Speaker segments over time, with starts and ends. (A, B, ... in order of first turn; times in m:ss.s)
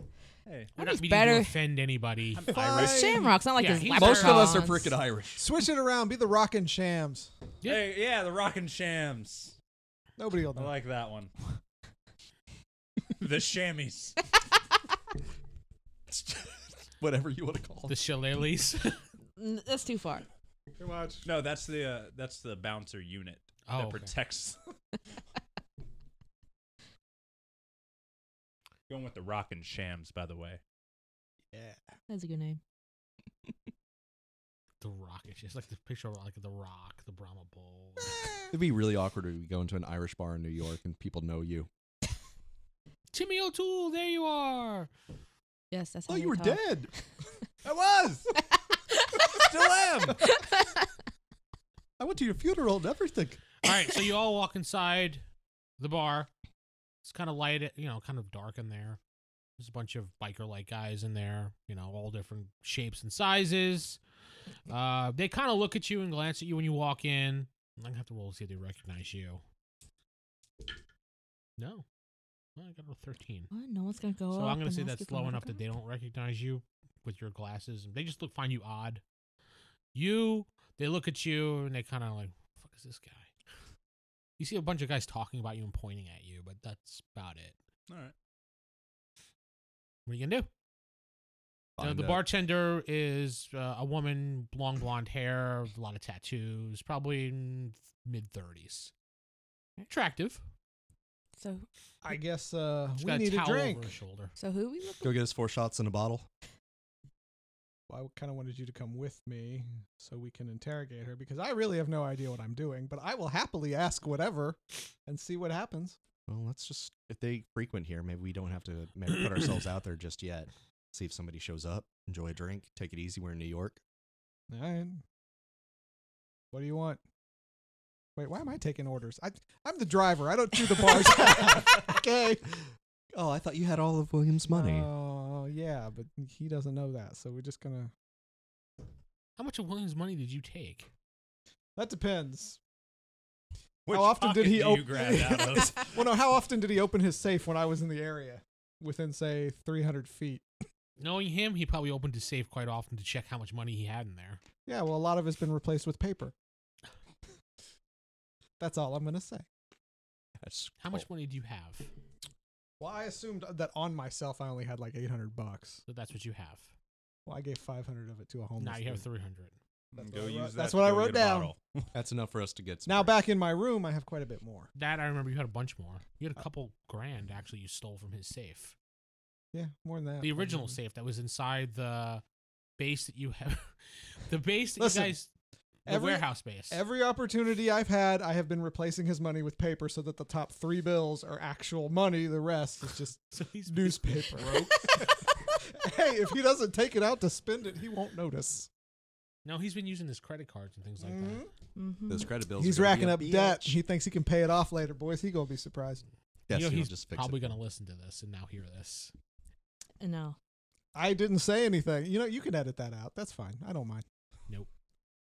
0:00.4-0:00.7 A
0:00.8-0:02.5 B
0:00.8-0:01.6 C
0:02.3-0:03.3 A
0:02.5-0:03.3 D
0:02.7-0:04.9 C
0:03.6-0:04.7 B
0:03.9-0:05.4 E
0:05.4-0:07.3 D
0:07.6-0:07.9 B
0:07.6-0:09.6 A
0:10.2-0:10.8 D
0:10.5-0:11.3 A
0:13.1-0:14.2 A
0:16.1-0:18.0 E
0:17.9-0:19.0 B
0:19.4-0:20.2 C
0:20.8-0:21.3 D
0:21.2-0:24.6 A
0:23.7-0:24.1 B
0:28.9-0:30.6 A
0:31.5-0:31.9 D
0:32.1-0:32.6 C
0:34.8-0:38.3 B
0:38.5-0:41.7 E
0:43.1-0:44.9 B
0:45.7-0:46.6 C
0:46.1-0:46.9 E
0:47.6-0:48.2 A
0:48.9-0:49.5 C
0:49.3-0:50.2 A
0:50.2-0:50.9 C
0:52.0-0:53.4 E
0:53.6-0:55.2 B
0:55.8-0:56.3 B
0:57.0-0:59.0 B
0:59.6-1:04.0 B
1:04.7-1:09.4 B
1:11.6-1:11.8 B
1:12.6-1:13.5 B
1:13.5-1:15.6 C
1:14.3-1:19.0 B
1:19.9-1:23.3 B
1:24.4-1:27.6 B
1:27.9-1:28.1 A
1:30.0-1:30.5 B
1:31.8-1:32.2 E
1:31.8-1:38.9 B
1:39.9-1:40.4 B
1:41.4-1:41.6 C
1:42.0-1:43.9 D
1:43.0-1:44.3 B
1:44.4-1:45.2 C
1:45.0-1:46.3 E
1:47.9-1:56.0 D
1:56.3-2:03.8 E
2:04.5-2:05.0 D
2:06.5-2:07.0 D
2:08.2-2:12.4 D
2:13.1-2:14.9 E
2:14.5-2:17.9 D
2:19.4-2:20.9 B
2:21.8-2:22.6 D
2:23.8-2:26.0 A
2:23.9-2:30.4 D
2:31.0-2:34.4 B
2:34.6-2:36.3 D
2:38.6-2:39.4 D
2:40.4-2:41.0 E
2:40.8-2:41.9 B
2:42.8-2:45.8 D
2:45.9-2:46.7 B
2:47.2-2:49.0 D
2:48.6-2:49.6 B
2:49.9-2:51.9 A
2:49.9-2:51.5 D
2:51.9-2:53.2 E
2:52.8-2:54.7 D
2:54.7-2:58.7 B
2:59.5-3:00.8 D
3:00.2-3:02.2 B
3:02.8-3:05.3 B
3:04.8-3:05.1 D
3:05.8-3:06.8 B
3:05.9-3:18.7 D
3:13.3-3:15.0 B
3:19.4-3:21.4 B
3:21.0-3:21.5 D
3:21.7-3:22.3 C
3:22.1-3:23.8 E
3:22.6-3:26.0 D
3:26.5-3:27.6 E
3:26.5-3:29.1 B
3:30.0-3:30.4 C
3:30.9-3:34.0 D